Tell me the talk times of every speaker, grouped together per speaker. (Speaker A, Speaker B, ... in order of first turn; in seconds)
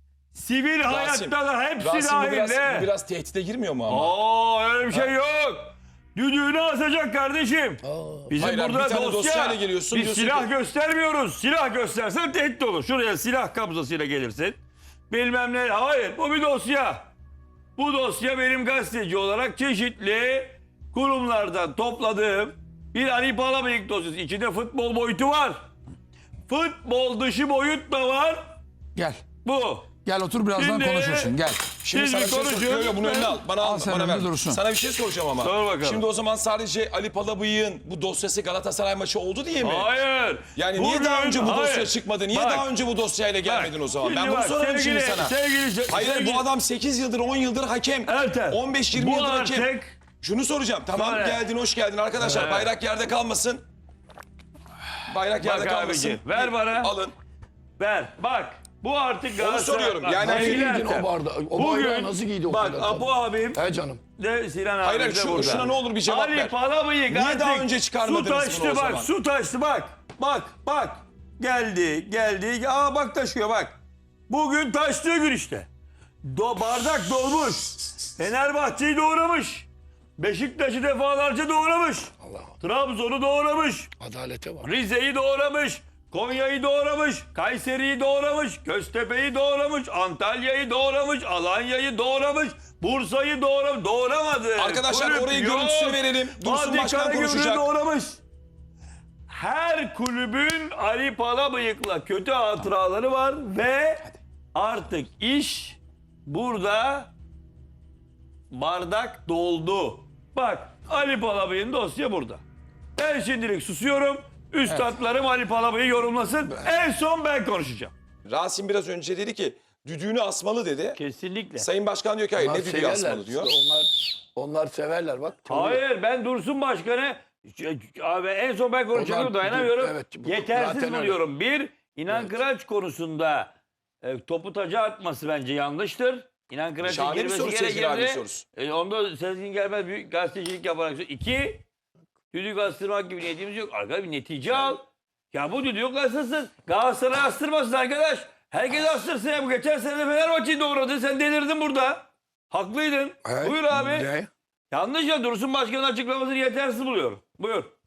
Speaker A: 0.3-2.9, 3.9-14.6, 15.1-17.1, 17.8-25.6, 26.5-28.6, 29.4-29.9, 30.6-31.4, 31.9-33.3, 35.4-36.0, 39.6-42.7, 43.5-46.5, 48.1-49.9, 50.9-51.4, 52.3-52.7, 55.4-56.9, 57.8-63.6, 64.2-73.8, 74.3-75.7, 76.2-79.7, 80.2-83.9, 84.6-98.2, 99.3-107.1, 108.5-112.4, 113.0-117.9, 121.0-121.7, 125.5-141.6, 142.3-154.1, 154.7-157.7
Speaker B: 0.8-4.2, 8.3-10.5, 31.8-39.9, 40.5-45.4, 45.9-49.7, 50.2-53.6, 55.1-57.1, 59.4-60.8, 64.8-66.5, 67.1-69.1, 94.6-97.7, 118.3-121.0, 121.6-123.5, 136.8-138.4
Speaker C: 7.8-8.3, 60.2-64.0, 82.2-82.5, 84.0-84.7, 122.4-125.8, 128.9-131.2, 132.1-132.3, 153.2-154.3
Speaker D: 28.9-29.2, 30.0-31.7, 33.5-34.6